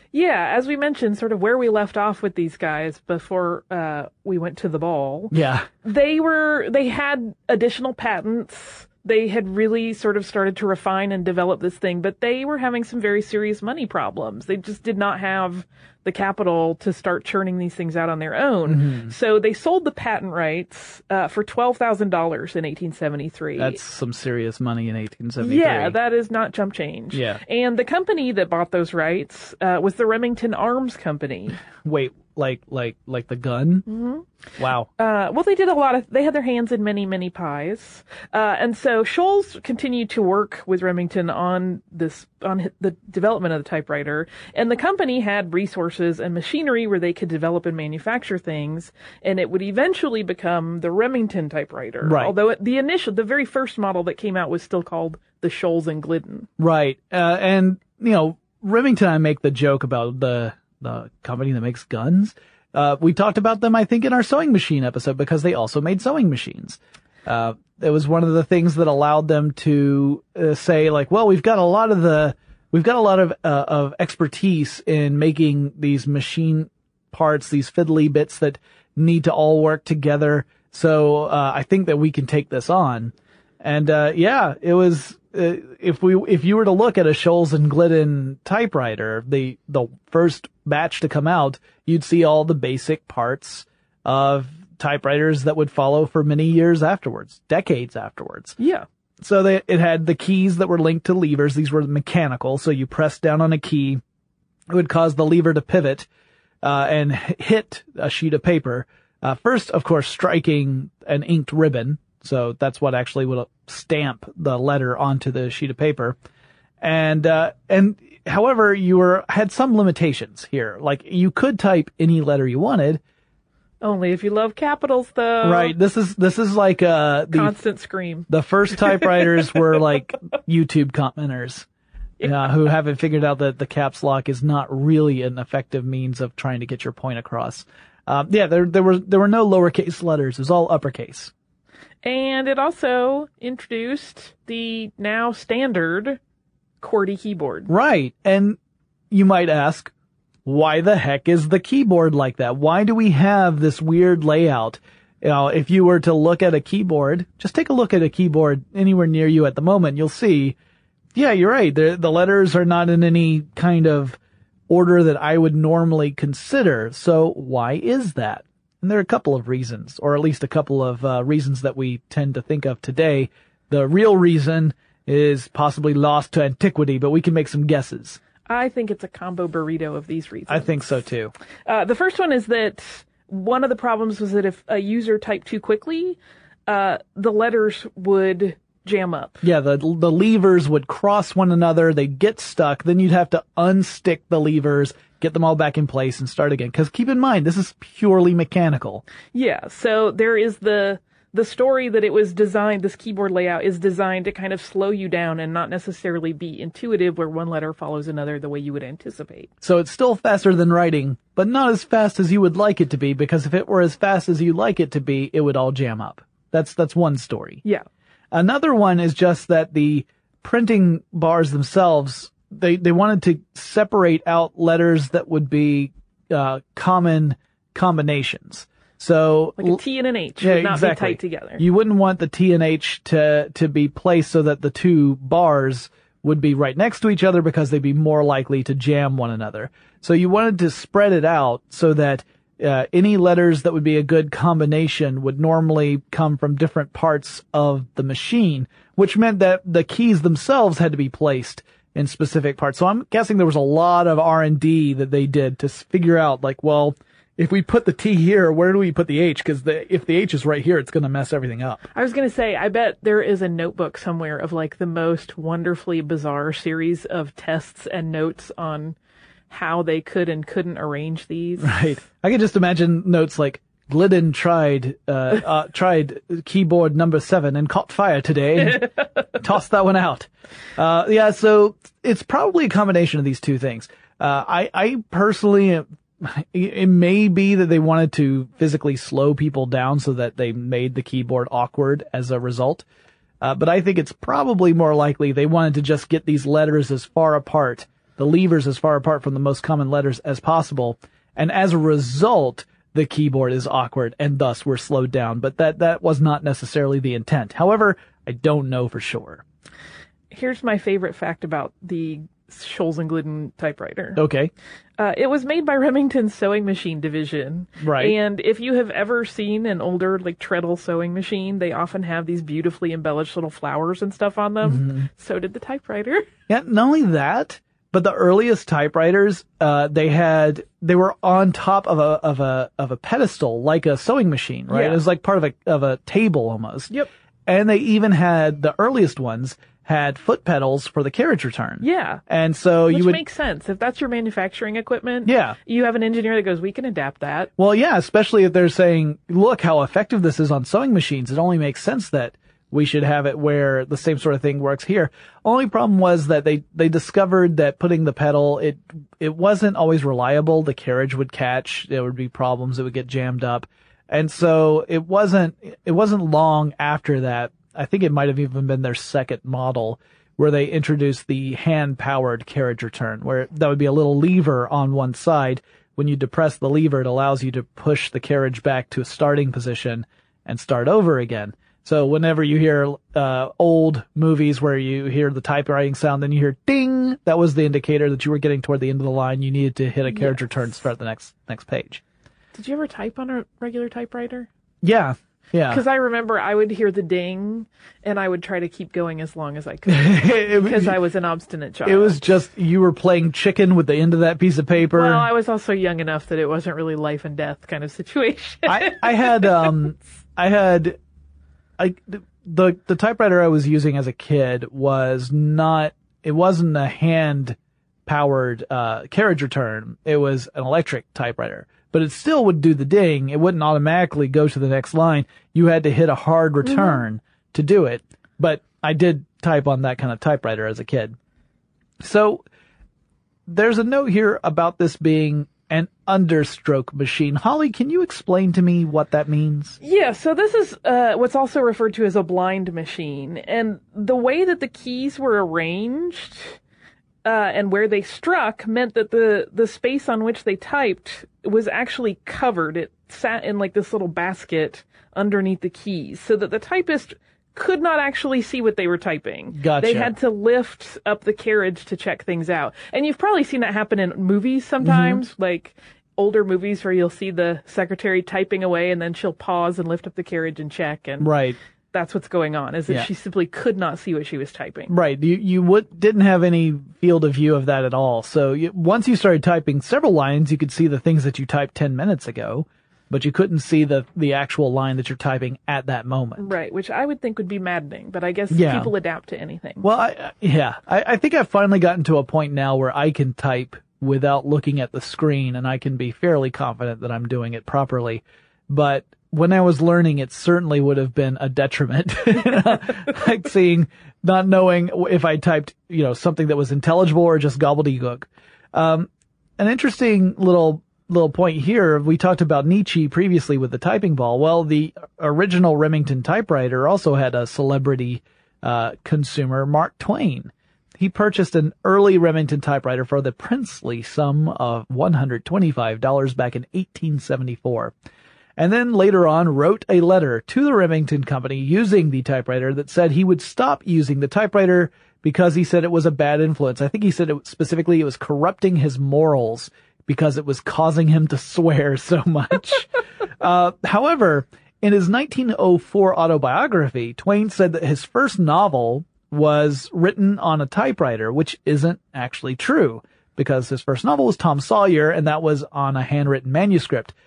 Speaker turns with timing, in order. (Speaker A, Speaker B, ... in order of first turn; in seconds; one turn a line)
Speaker A: 0.1-23.8
Speaker B: 5.3-5.7
Speaker B: 18.7-19.1
Speaker B: 23.6-25.9
Speaker A: 25.4-31.6
Speaker B: 27.1-27.4
Speaker B: 31.8-33.9
Speaker A: 33.9-34.3
Speaker B: 34.6-34.9
Speaker A: 35.0-56.5
Speaker B: 52.0-52.3
Speaker B: 56.6-98.5
Speaker A: 98.6-98.8
Speaker B: 99.2-104.0
Speaker B: 104.7-106.1
Speaker B: 106.6-116.2
Speaker B: 116.8-123.0
Speaker A: 123.8-125.7
Speaker B: 125.4-127.5
Speaker A: 127.3-129.3
Speaker B: 128.3-131.7
Speaker A: 132.2-132.4
Speaker B: 132.2-141.3
Speaker A: 142.0-146.2
Speaker A: 146.8-147.7
Speaker B: 147.7-148.6
Speaker B: 149.1-149.9
Speaker B: 150.4-160.6
Speaker B: 161.1-164.2
Speaker B: 164.7-178.2
Speaker A: 178.5-181.0
Speaker B: 180.5-181.3
Speaker A: 181.7-189.4
Speaker B: 189.4-199.0
Speaker A: 199.3-209.5
Speaker B: 209.6-217.6
Speaker B: 218.3-229.8
Speaker A: 229.6-231.6
Speaker B: 230.4-261.8
Speaker A: 261.9-268.9
Speaker A: 269.5-271.8
Speaker B: 271.6-292.8
Speaker B: 293.4-309.4
Speaker A: 310.3-314.2
Speaker B: 314.1-314.5
Speaker A: 315.0-326.2
Speaker B: 317.8-318.1
Speaker B: 324.6-325.1
Speaker B: 326.5-336.9
Speaker A: 334.7-335.0
Speaker B: 337.4-343.2
Speaker A: 341.8-342.2
Speaker A: 342.9-347.5
Speaker B: 345.2-345.6
Speaker B: 347.6-392.0
Speaker A: 390.1-390.4
Speaker A: 392.5-394.5
Speaker B: 394.8-395.8
Speaker A: 395.7-402.3
Speaker B: 399.9-400.9
Speaker B: 401.8-405.2
Speaker A: 404.8-409.8
Speaker B: 408.6-411.0
Speaker B: 411.8-431.1
Speaker A: 426.6-427.0
Speaker B: 432.0-432.4
Speaker B: 433.5-439.8
Speaker A: 439.8-446.6
Speaker A: 447.2-471.3
Speaker B: 459.5-460.1
Speaker B: 464.8-465.2
Speaker B: 471.2-471.6
Speaker A: 471.9-474.9
Speaker B: 474.9-486.5
Speaker A: 486.4-489.9
Speaker B: 488.5-488.9
Speaker B: 489.8-527.9
Speaker B: 528.6-557.1